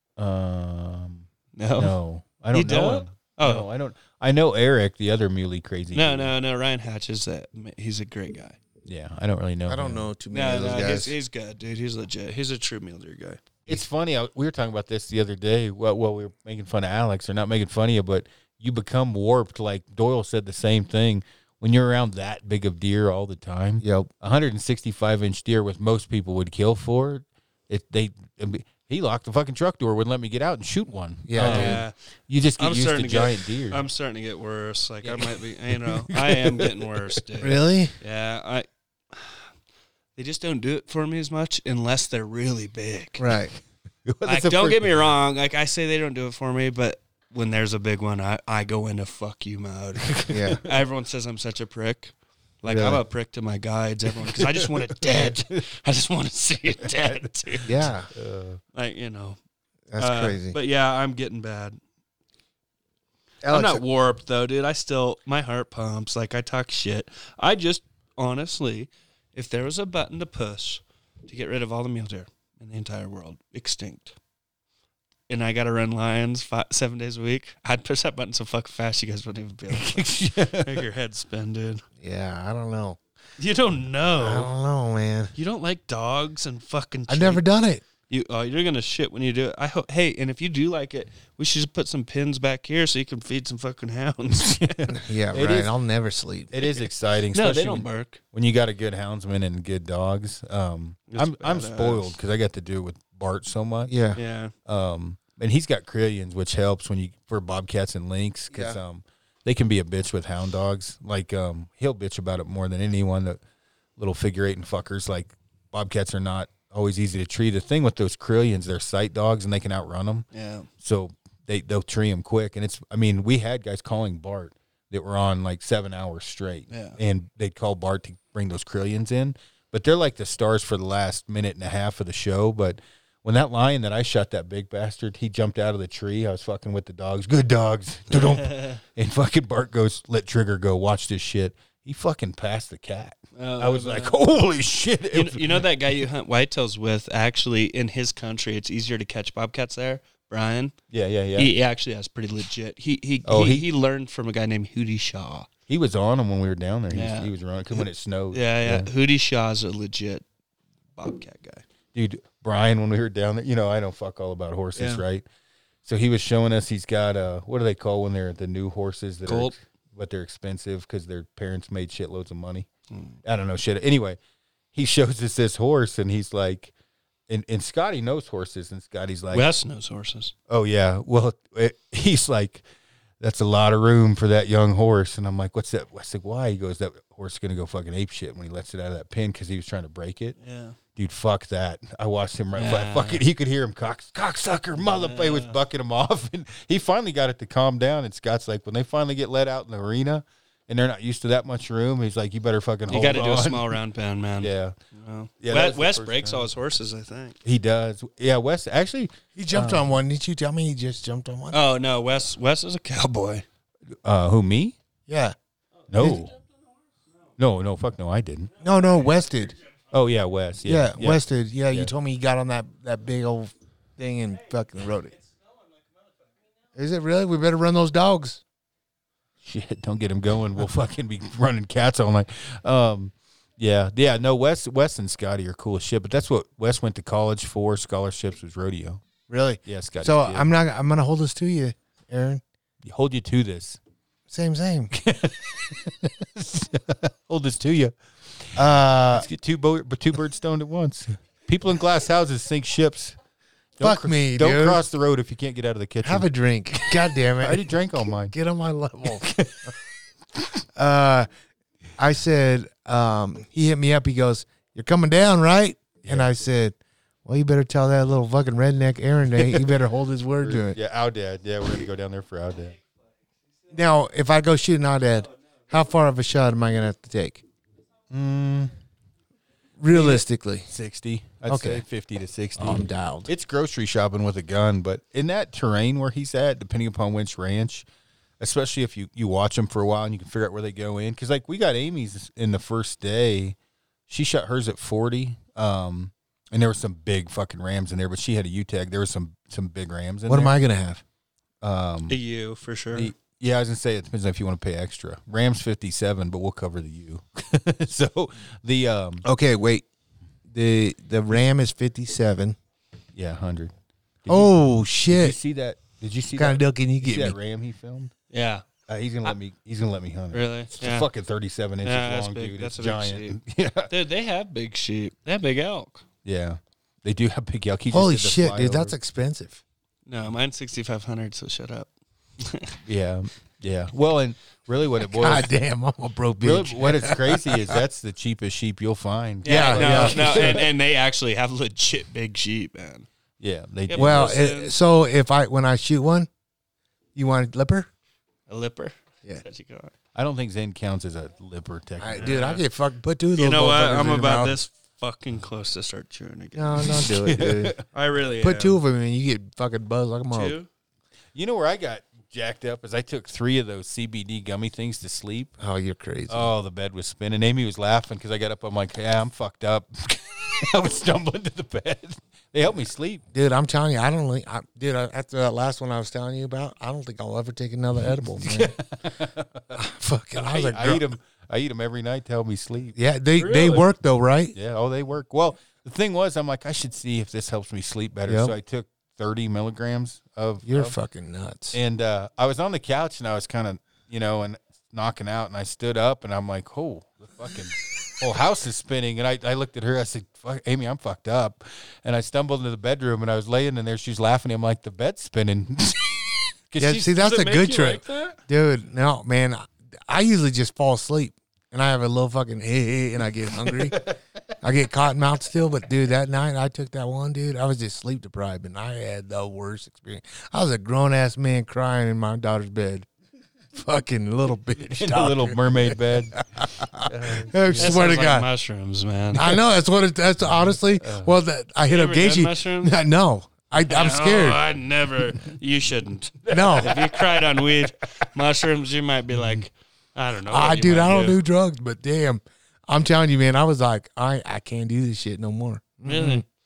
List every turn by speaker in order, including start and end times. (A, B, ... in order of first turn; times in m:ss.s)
0:00.2-0:06.3 A
0:01.6-0:01.9 B
0:02.5-0:03.7 B
0:05.9-0:08.6 B
0:08.8-0:10.1 A
0:09.7-0:11.2 C
0:10.3-0:13.4 B
0:13.7-0:33.8 A
0:23.8-0:24.1 C
0:31.3-0:31.8 C
0:31.4-0:31.9 B
0:32.6-0:39.4 B
0:35.0-0:37.2 A
0:37.4-0:37.9 C
0:40.2-0:43.3 B
0:43.2-0:43.5 C
0:44.1-0:45.0 A
0:44.3-0:57.7 B
0:50.3-0:50.6 C
0:52.7-0:53.0 C
0:54.2-0:55.6 A
0:56.8-0:57.3 A
0:57.7-0:58.1 C
0:58.1-0:58.6 A
0:58.7-0:59.4 B
0:59.9-1:00.6 C
1:00.0-1:01.8 B
1:03.4-1:03.8 C
1:03.5-1:14.2 B
1:15.3-1:21.8 B
1:19.7-1:20.9 A
1:22.0-1:23.0 C
1:23.4-1:24.5 B
1:24.2-1:25.3 C
1:25.4-1:27.4 B
1:27.1-1:27.8 C
1:28.1-1:34.9 B
1:34.4-1:35.7 A
1:34.9-1:36.5 C
1:36.5-1:43.9 A
1:37.3-1:38.2 B
1:41.1-1:42.1 B
1:43.9-1:44.2 C
1:44.2-1:44.5 B
1:44.7-1:53.4 A
1:48.5-1:48.8 C
1:54.0-2:00.2 A
2:00.3-2:00.7 B
2:00.8-2:25.7 A
2:06.7-2:07.0 B
2:18.1-2:18.8 B
2:23.4-2:24.2 B
2:25.1-2:30.7 B
2:30.9-2:31.5 A
2:31.4-2:35.5 B
2:33.2-2:33.7 A
2:35.7-2:38.9 A
2:36.9-2:40.2 B
2:41.0-2:41.6 B
2:41.9-2:45.2 A
2:44.8-2:45.0 B
2:45.8-2:52.7 A
2:49.3-2:49.5 B
2:52.9-2:53.2 B
2:53.2-2:54.2 A
2:54.7-2:56.7 A
2:57.3-2:59.5 A
2:59.3-3:00.3 B
3:00.5-3:02.6 A
3:03.2-3:10.4 A
3:10.4-3:10.8 B
3:11.0-3:23.8 A
3:12.6-3:13.2 B
3:14.8-3:15.6 B
3:22.9-3:27.4 B
3:24.4-3:24.8 A
3:25.4-3:26.5 A
3:27.4-3:29.9 A
3:29.4-3:31.6 C
3:31.5-3:33.4 B
3:34.0-3:34.8 A
3:35.1-3:35.4 C
3:35.9-3:36.3 A
3:36.0-3:36.3 C
3:37.4-3:38.5 A
3:38.6-3:39.6 C
3:39.9-3:41.9 A
3:40.6-3:45.2 C
3:46.8-3:48.4 C
3:49.4-3:59.0 A
3:59.3-4:02.4 C
3:59.6-4:00.5 A
4:02.8-4:03.8 A
4:04.3-4:05.0 C
4:04.9-4:13.2 A
4:08.6-4:09.3 C
4:13.8-4:16.3 A
4:13.8-4:14.8 C
4:16.0-4:19.3 C
4:17.4-4:18.3 A
4:19.1-4:19.7 A
4:20.8-4:21.3 C
4:22.0-4:30.8 C
4:26.0-4:26.3 A
4:29.4-4:29.7 A
4:30.4-4:32.8 A
4:33.7-4:37.4 C
4:38.1-4:38.7 A
4:39.8-4:40.7 C
4:39.9-4:47.9 A
4:41.5-4:41.8 C
4:42.6-4:43.3 C
4:48.4-4:53.6 A
4:54.1-5:00.6 A
5:00.3-5:01.0 C
5:01.6-5:02.2 A
5:02.1-5:03.1 B
5:02.9-5:09.2 A
5:09.2-5:09.8 C
5:10.5-5:12.6 C
5:13.2-5:13.7 A
5:14.2-5:14.6 A
5:14.3-5:15.4 C
5:15.1-5:18.1 A
5:16.4-5:17.4 C
5:18.3-5:18.7 B
5:18.9-5:23.9 A
5:20.3-5:21.1 B
5:21.8-5:23.4 B
5:23.9-5:26.0 B
5:26.2-5:29.0 A
5:27.9-5:29.6 C
5:30.1-5:32.8 B
5:32.8-5:35.5 A
5:35.1-5:37.7 C
5:36.4-5:40.7 A
5:39.4-5:43.1 B
5:39.5-5:40.6 C
5:43.4-5:44.3 A
5:43.9-5:44.7 B
5:44.0-5:46.3 C
5:47.2-5:47.9 C
5:48.5-5:49.9 B
5:50.2-5:52.4 A
5:52.0-5:54.6 C
5:52.2-5:52.6 B
5:53.4-5:57.1 B
5:56.6-5:57.8 C
5:57.0-5:57.8 A
5:57.9-5:58.8 B
5:58.4-6:00.6 C
6:00.3-6:00.7 B
6:01.4-6:05.5 A
6:05.6-6:06.5 C
6:06.3-6:13.2 A
6:13.3-6:18.8 C
6:18.4-6:19.8 A
6:19.7-6:21.0 C
6:20.4-6:23.0 A
6:23.0-6:24.6 C
6:23.4-6:23.9 B
6:24.6-6:31.0 A
6:28.3-6:28.5 C
6:30.6-6:31.8 C
6:31.7-6:47.2 A
6:46.8-6:54.0 C
6:47.2-6:48.4 B
6:53.7-6:54.2 A
6:54.6-7:03.1 C
7:03.7-7:08.5 C
7:04.9-7:06.4 A
7:07.0-7:08.0 A
7:07.8-7:09.6 B
7:09.4-7:14.6 C
7:10.4-7:11.3 A
7:11.9-7:13.0 B
7:13.9-7:21.4 B
7:16.4-7:17.8 A
7:16.5-7:16.9 C
7:20.5-7:26.4 C
7:26.1-7:26.4 B